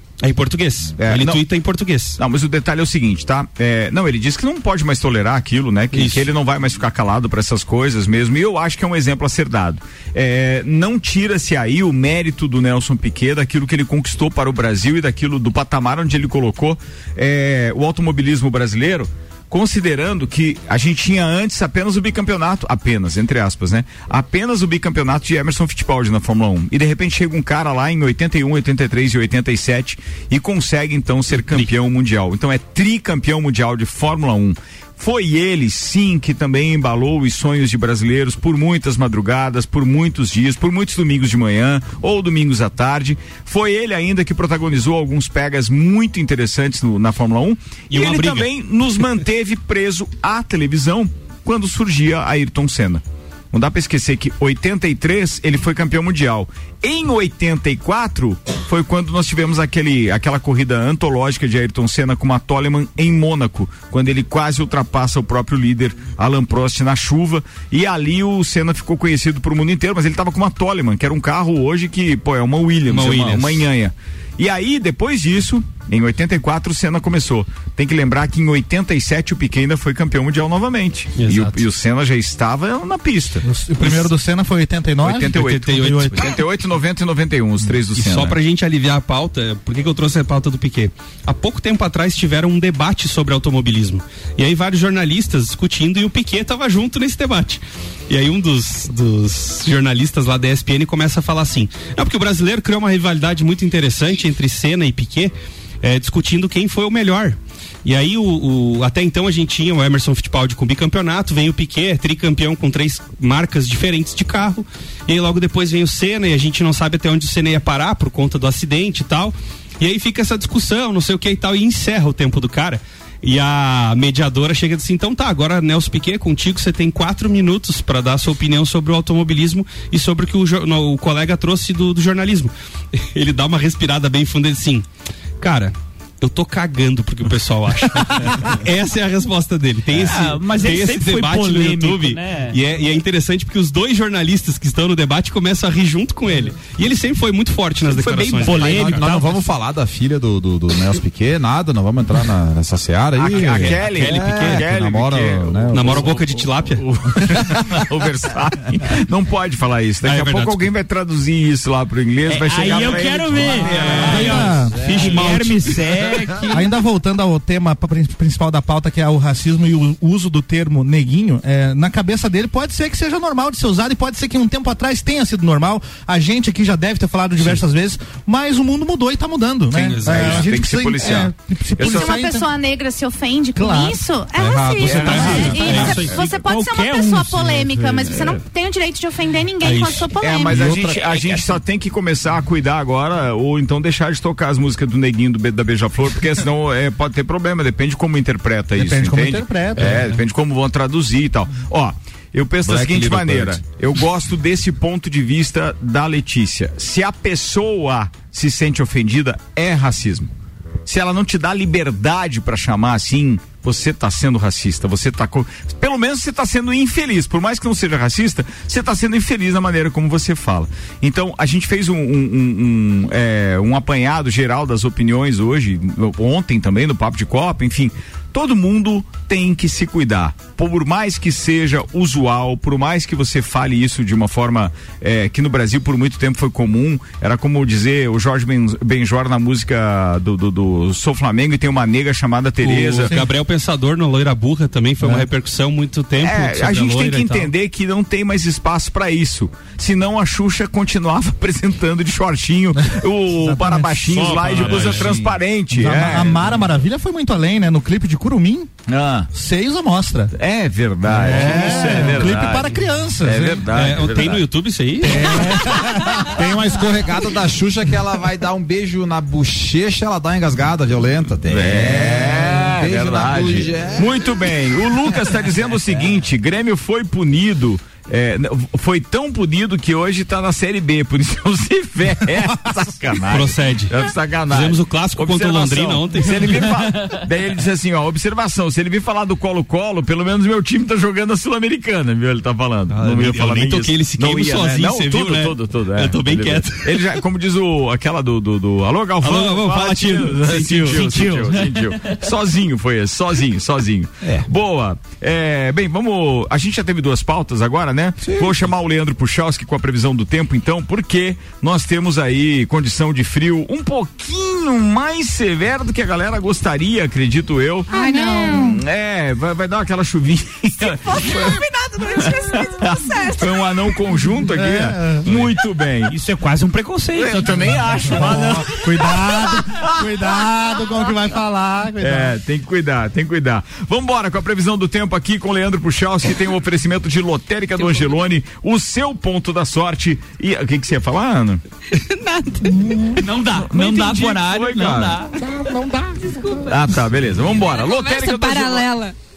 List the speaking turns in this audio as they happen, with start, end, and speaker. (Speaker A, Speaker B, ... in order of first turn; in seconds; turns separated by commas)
Speaker A: 0.2-2.2, Speaker B: 1.0-1.4, Speaker B: 2.2-83.9, Speaker A: 5.9-6.3, Speaker A: 31.4-31.7, Speaker A: 47.9-48.5, Speaker A: 72.9-73.7, Speaker A: 81.2-81.6, Speaker C: 83.4-86.2, Speaker B: 85.0-88.4, Speaker A: 85.3-86.3, Speaker A: 87.9-134.8, Speaker A: 135.4-149.0, Speaker D: 139.9-142.6, Speaker B: 148.0-148.3, Speaker D: 148.4-149.4, Speaker E: 148.4-156.2, Speaker B: 153.2-156.2, Speaker A: 153.3-154.7, Speaker A: 155.7-156.8, Speaker B: 156.8-164.3, Speaker A: 160.0-160.7, Speaker D: 162.3-166.6, Speaker A: 163.5-165.8, Speaker C: 164.1-164.8, Speaker C: 166.5-182.5, Speaker A: 179.7-180.5, Speaker B: 180.0-182.1, Speaker F: 181.8-190.9, Speaker C: 183.6-184.0, Speaker E: 184.4-186.0, Speaker A: 184.8-186.2, Speaker B: 184.8-186.3, Speaker D: 186.2-188.1, Speaker A: 189.6-190.7, Speaker B: 190.2-210.3, Speaker C: 198.8-200.0, Speaker E: 202.6-203.6, Speaker B: 210.8-243.1, Speaker A: 242.6-247.5, Speaker B: 246.2-256.6, Speaker C: 252.8-254.2, Speaker A: 254.2-255.2, Speaker E: 254.7-255.3, Speaker C: 255.7-258.7, Speaker B: 258.9-259.3, Speaker C: 259.3-260.3, Speaker B: 260.3-264.4, Speaker C: 261.0-263.6, Speaker A: 263.7-265.7, Speaker E: 265.1-265.6, Speaker C: 265.5-266.2, Speaker E: 266.2-274.1, Speaker B: 271.5-321.6, Speaker A: 283.3-286.9, Speaker A: 292.9-297.0, Speaker A: 299.2-301.6, Speaker E: 308.2-308.5, Speaker F: 317.9-318.8, Speaker C: 318.1-318.6, Speaker F: 320.8-323.7, Speaker B: 322.1-326.1, Speaker C: 324.5-325.3, Speaker D: 326.1-328.5, Speaker B: 327.1-330.0, Speaker C: 328.0-332.3, Speaker B: 332.0-341.6, Speaker G: 342.1-342.7, Speaker D: 343.1-345.3, Speaker B: 343.5-345.2, Speaker B: 346.6-348.9, Speaker G: 347.8-349.1